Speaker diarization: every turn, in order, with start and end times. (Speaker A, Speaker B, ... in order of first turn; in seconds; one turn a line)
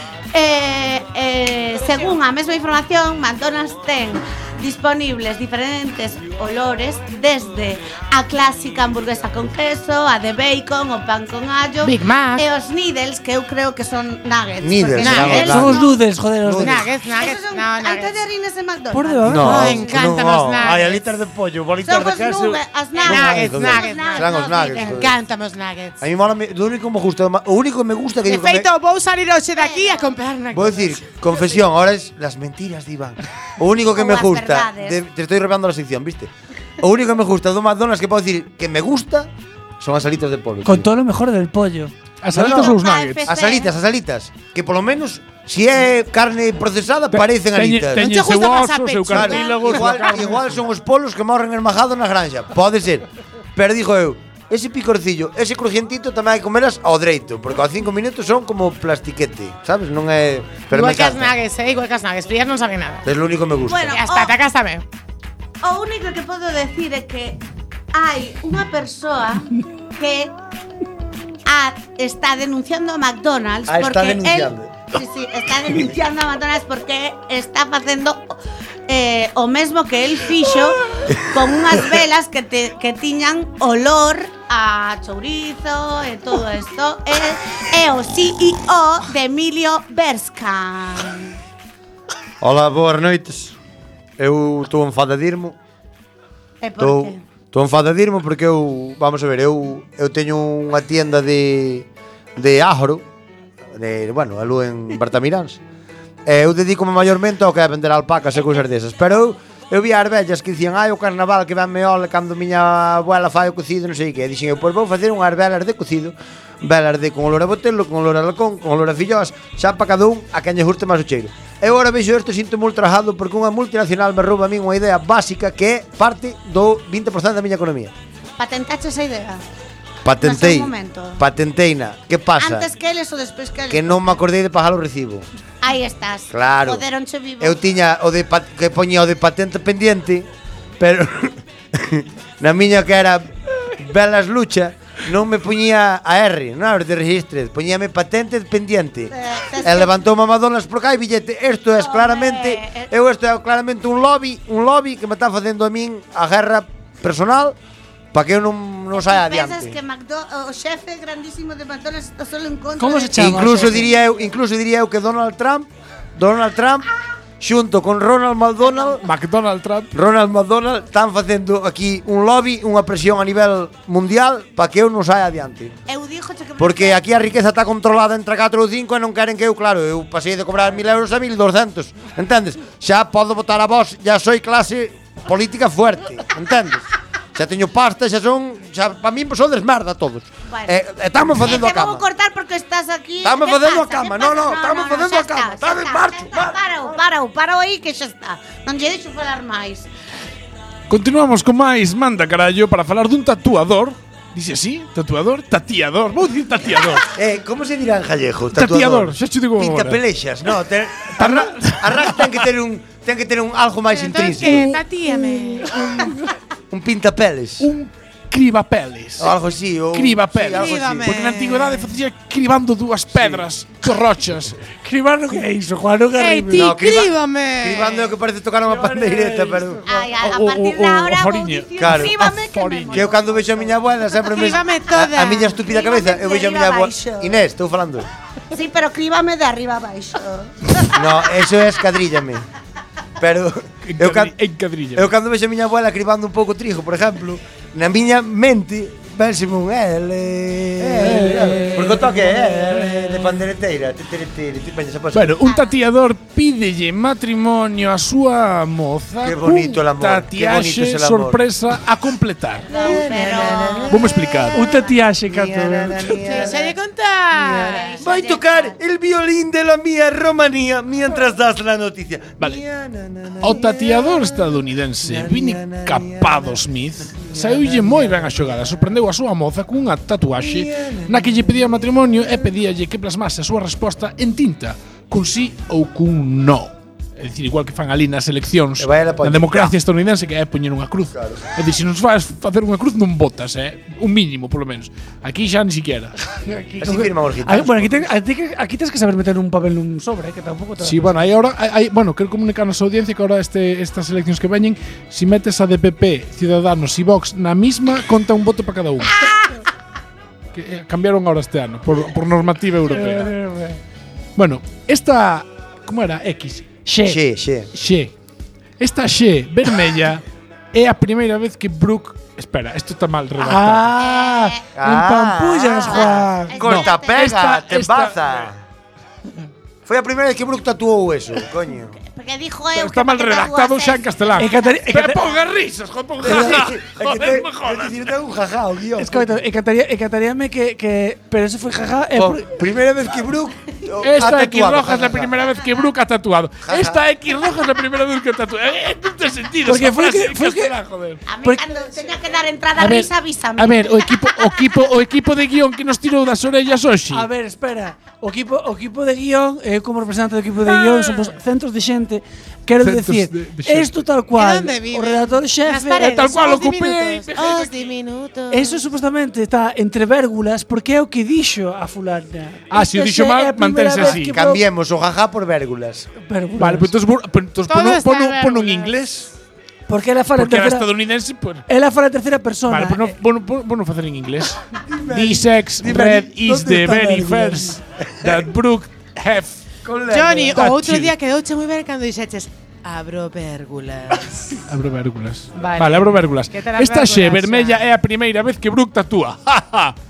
Speaker A: 0.3-15.9
Speaker B: 11.8-12.5
Speaker C: 14.6-15.8
Speaker B: 15.0-15.5
Speaker D: 15.5-16.8
Speaker C: 16.4-16.9
Speaker B: 16.6-18.2
Speaker A: 17.1-19.9
Speaker D: 18.9-19.8
Speaker C: 19.2-25.1
Speaker B: 19.4-21.0
Speaker A: 21.8-25.1
Speaker B: 22.9-26.0
Speaker C: 26.0-28.7
Speaker B: 28.3-31.1
Speaker A: 29.6-30.1
Speaker C: 30.5-40.9
Speaker A: 33.9-35.0
Speaker D: 40.6-41.9
Speaker E: 42.2-43.3
Speaker C: 42.3-48.1
Speaker A: 42.4-43.7
Speaker E: 47.1-50.5
Speaker B: 48.0-50.1
Speaker C: 49.1-61.4
Speaker B: 60.7-63.0
Speaker C: 63.0-63.9
Speaker A: 63.6-64.3
Speaker B: 63.9-64.8
Speaker A: 65.6-67.4
Speaker A: 67.9-70.3
Speaker A: 71.5-78.4
Speaker C: 73.7-74.9
Speaker A: 78.9-91.3
Speaker C: 92.4-93.6
Speaker C: 94.2-95.6
Speaker A: 96.6-97.2
Speaker C: 96.8-103.0
Speaker C: 103.7-105.6
Speaker C: 106.3-127.9
Speaker A: 128.4-129.4
Speaker C: 130.0-132.7
Speaker A: 130.2-131.2
Speaker A: 132.4-134.2
Speaker C: 133.7-135.3
Speaker A: 135.6-137.6
Speaker C: 136.3-136.8
Speaker C: 137.4-157.6
Speaker A: 149.1-149.9
Speaker A: 151.8-152.9
Speaker C: 158.1-159.8
Speaker A: 158.9-164.0
Speaker D: 162.8-163.9
Speaker C: 163.2-166.9
Speaker C: 167.4-169.0
Speaker A: 168.6-169.0
Speaker E: 169.0-169.9
Speaker C: 169.9-175.8
Speaker A: 175.9-177.0
Speaker C: 176.6-192.0
Speaker A: 190.5-190.8
Speaker A: 191.4-199.9
Speaker C: 193.2-196.6
Speaker E: 200.9-207.1
Speaker C: 207.2-214.8
Speaker E: 208.6-210.0
Speaker E: 211.2-211.9
Speaker B: 213.9-215.8
Speaker C: 216.7-217.7
Speaker E: 217.6-219.3
Speaker C: 219.2-221.2
Speaker E: 219.9-224.6
Speaker B: 220.4-221.9
Speaker C: 223.1-223.5
Speaker D: 224.8-226.7
Speaker B: 226.2-228.2
Speaker C: 226.5-229.9
Speaker A: 229.9-233.6
Speaker E: 230.2-233.1
Speaker C: 231.8-232.3
Speaker C: 232.9-238.1
Speaker B: 234.2-235.6
Speaker A: 235.5-237.4
Speaker A: 238.5-241.1
Speaker C: 240.9-242.5
Speaker C: 243.2-244.3
Speaker E: 243.8-245.1
Speaker C: 244.9-255.5
Speaker D: 251.0-251.9
Speaker E: 251.0-252.0
Speaker E: 255.1-262.7
Speaker A: 255.4-255.8
Speaker C: 259.2-261.4
Speaker A: 262.6-264.9
Speaker B: 262.8-263.8
Speaker C: 262.8-263.9
Speaker E: 263.9-264.6
Speaker D: 264.5-266.1
Speaker C: 265.3-266.7
Speaker B: 266.2-268.0
Speaker A: 266.3-266.6
Speaker A: 267.4-268.8
Speaker C: 268.0-276.6
Speaker E: 273.4-296.1
Speaker C: 280.4-281.4
Speaker C: 288.8-289.8
Speaker C: 291.1-291.4
Speaker D: 296.4-301.2
Speaker C: 296.8-298.1
Speaker E: 300.8-309.2
Speaker E: 310.5-313.3
Speaker D: 312.9-313.8
Speaker E: 314.4-316.7
Speaker D: 316.9-317.2
Speaker C: 317.1-317.7
Speaker E: 317.7-318.1
Speaker E: 318.8-323.9
Speaker D: 323.4-326.6
Speaker A: 324.0-324.6
Speaker C: 324.8-328.6
Speaker A: 325.8-327.4
Speaker E: 327.1-328.3
Speaker C: 329.9-331.9
Speaker A: 332.0-334.8
Speaker E: 332.7-338.0
Speaker D: 334.4-335.3
Speaker C: 336.2-339.4
Speaker D: 339.0-342.5
Speaker C: 342.1-345.5
Speaker E: 344.0-351.2
Speaker C: 346.6-347.0
Speaker D: 349.6-350.8
Speaker A: 351.3-354.9
Speaker E: 352.8-357.3
Speaker D: 357.1-366.3
Speaker B: 360.8-361.4
Speaker E: 362.8-363.9
Speaker B: 364.3-368.8
Speaker E: 366.0-367.9
Speaker D: 368.5-374.6
Speaker E: 372.7-374.3
Speaker C: 374.1-376.1
Speaker D: 376.2-376.9
Speaker E: 376.6-379.3
Speaker B: 377.7-378.9
Speaker D: 379.9-380.9
Speaker E: 380.3-381.6
Speaker D: 381.7-383.1
Speaker E: 382.7-389.6
Speaker C: 384.9-387.5
Speaker C: 389.9-390.6
Speaker B: 390.1-394.6
Speaker E: 390.6-391.1
Speaker E: 394.7-399.9
Speaker B: 395.6-397.8